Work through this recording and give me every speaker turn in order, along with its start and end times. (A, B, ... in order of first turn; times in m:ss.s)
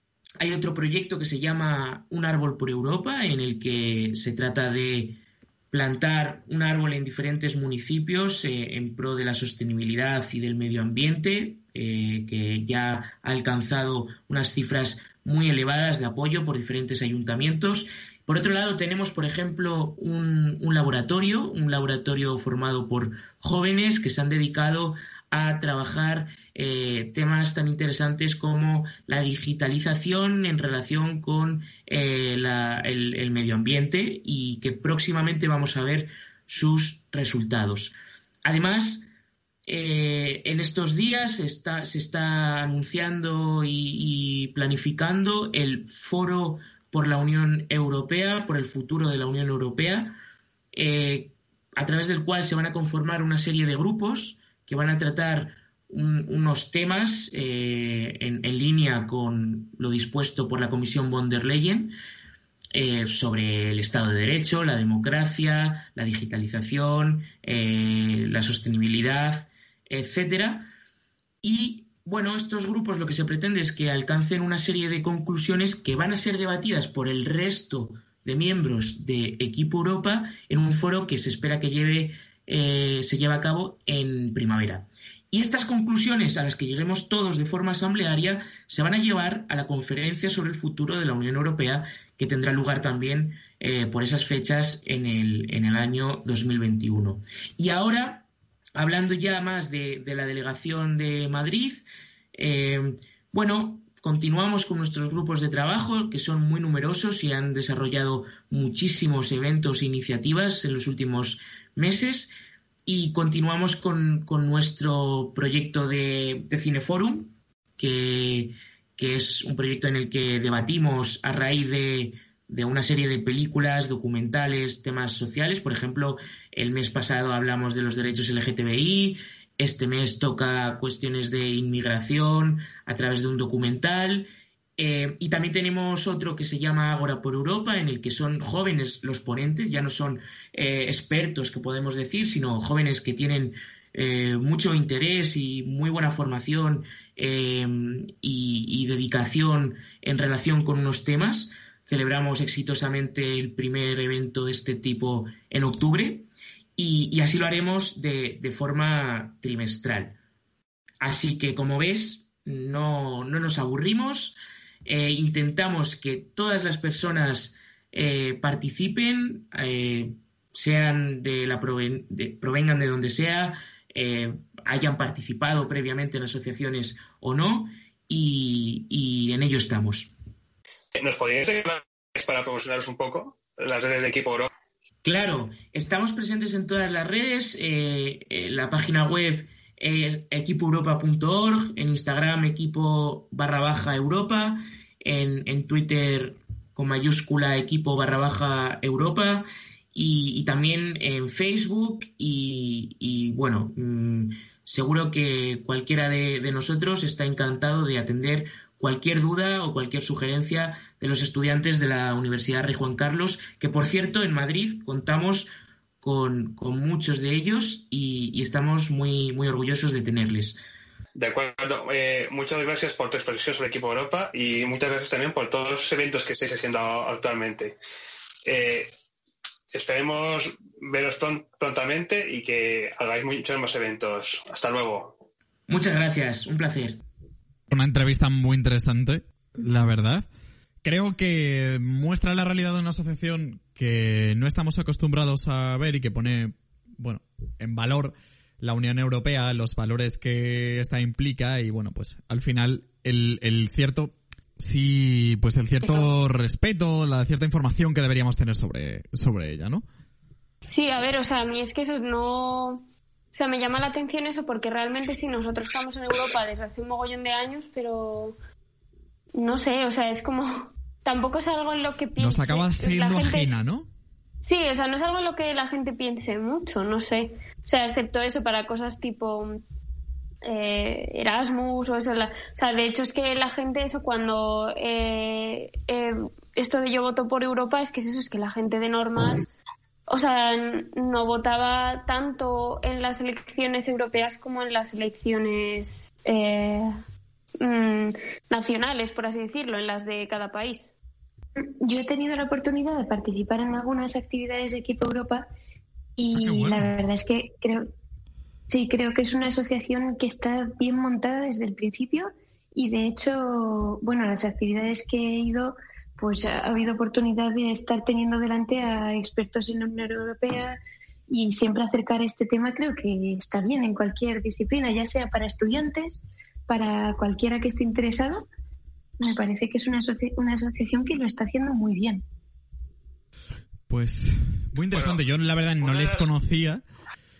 0:00.4-0:05.2 A
0:05.7-0:39.1 A
0:39.6-0:50.2 A
0:50.7-1:01.9 A
1:02.7-1:10.7 A
1:11.4-1:52.3 A
1:52.8-2:40.2 A
2:41.0-3:00.1 A
3:00.9-3:04.5 B
3:05.0-3:35.5 A
3:36.0-3:40.6 A
3:41.2-3:47.8 B
3:48.4-3:48.9 B
3:49.7-3:55.1 B
3:55.7-3:57.0 A
3:57.7-4:00.3 C
4:00.8-4:19.8 C
4:15.8-4:16.1 D
4:20.7-4:28.3 D
4:29.3-4:33.6 D
4:32.2-4:33.9 C
4:34.4-4:39.6 D
4:40.4-4:49.4 D
4:50.1-4:56.9 D
4:57.6-5:00.9 D
5:01.6-5:05.5 E
5:06.2-5:07.9 E
5:06.3-5:06.9 C
5:08.7-5:20.8 E
5:21.3-5:28.4 E
5:29.2-5:32.2 E
5:33.9-5:36.8 C
5:34.9-5:35.2 B
5:35.8-5:36.3 B